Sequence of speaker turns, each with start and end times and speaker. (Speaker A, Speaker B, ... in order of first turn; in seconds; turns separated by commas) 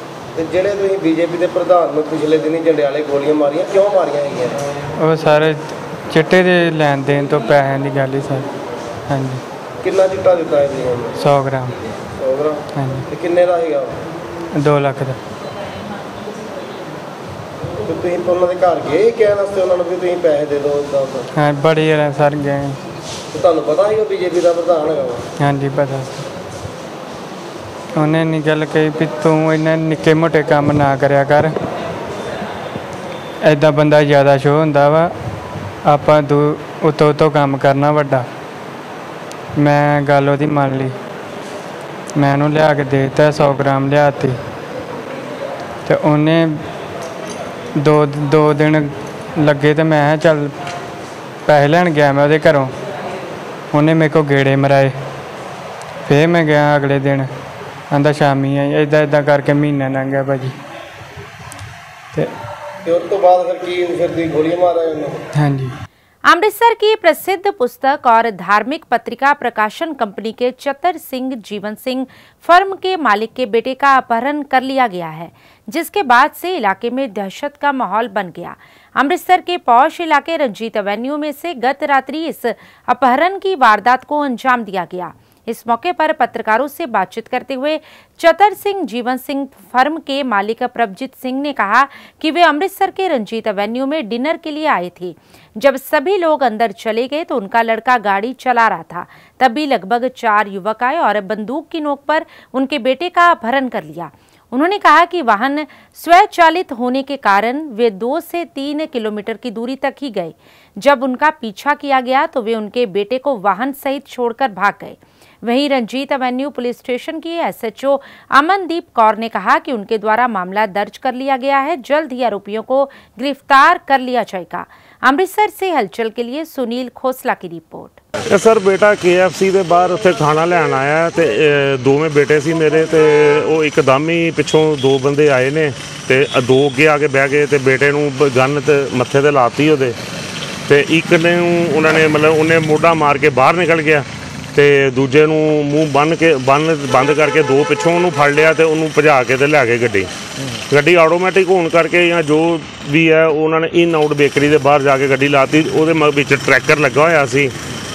Speaker A: 0.4-4.6, Speaker B: 5.0-8.5, Speaker B: 9.1-9.4, Speaker A: 9.8-11.1, Speaker B: 11.2-11.8, Speaker A: 12.2-13.9, Speaker B: 12.8-13.1, Speaker B: 14.6-15.2, Speaker A: 17.9-21.3, Speaker B: 21.3-22.8, Speaker A: 23.3-25.2, Speaker B: 25.4-26.2, Speaker B: 28.0-31.5, Speaker B: 33.5-35.1, Speaker B: 35.9-38.2, Speaker B: 39.6-41.0, Speaker B: 42.2-44.4, Speaker B: 45.8-46.6, Speaker B: 47.8-50.5, Speaker B: 51.5-52.7, Speaker B: 53.7-55.0, Speaker B: 56.1-57.3, Speaker B: 57.9-60.6, Speaker A: 62.9-65.2, Speaker B: 65.3-65.8, Speaker C: 66.2-128.0, Speaker D: 128.3-139.9, Speaker D: 140.7-150.1, Speaker D: 150.7-157.5